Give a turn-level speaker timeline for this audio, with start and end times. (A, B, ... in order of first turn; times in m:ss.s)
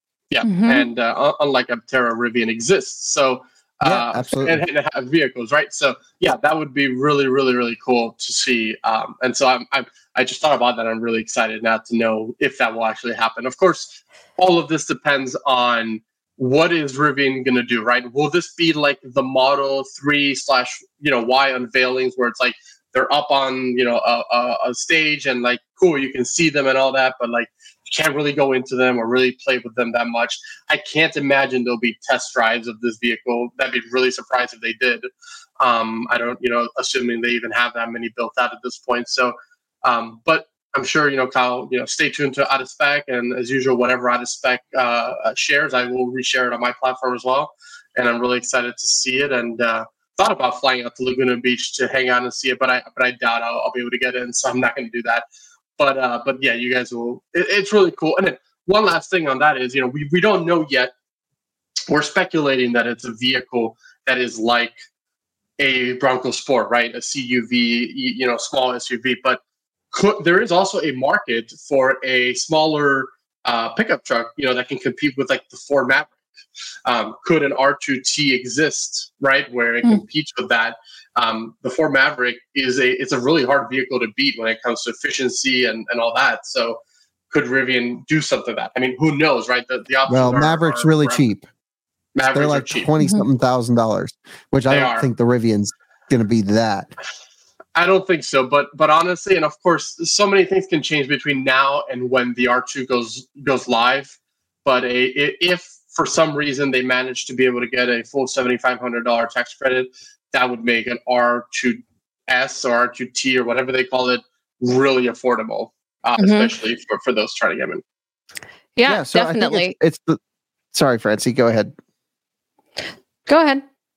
0:00.3-0:35.1 A
0:00.4-0:00.8 B
0:03.8-0:04.6 C
0:35.6-0:55.2 A
0:55.8-1:00.9 A
1:01.9-1:04.7 A
1:05.6-1:09.4 A
1:09.9-1:16.2 A
1:16.8-1:26.8 A
1:27.3-1:31.2 A
1:30.1-1:31.4 C
1:32.1-1:32.9 A
1:32.3-1:36.9 C
1:34.7-1:35.1 A
1:37.7-1:57.8 A
1:56.2-1:56.5 B
1:58.8-1:59.7 B
1:58.8-2:00.2 C
2:00.7-2:01.7 C
2:03.3-2:03.6 B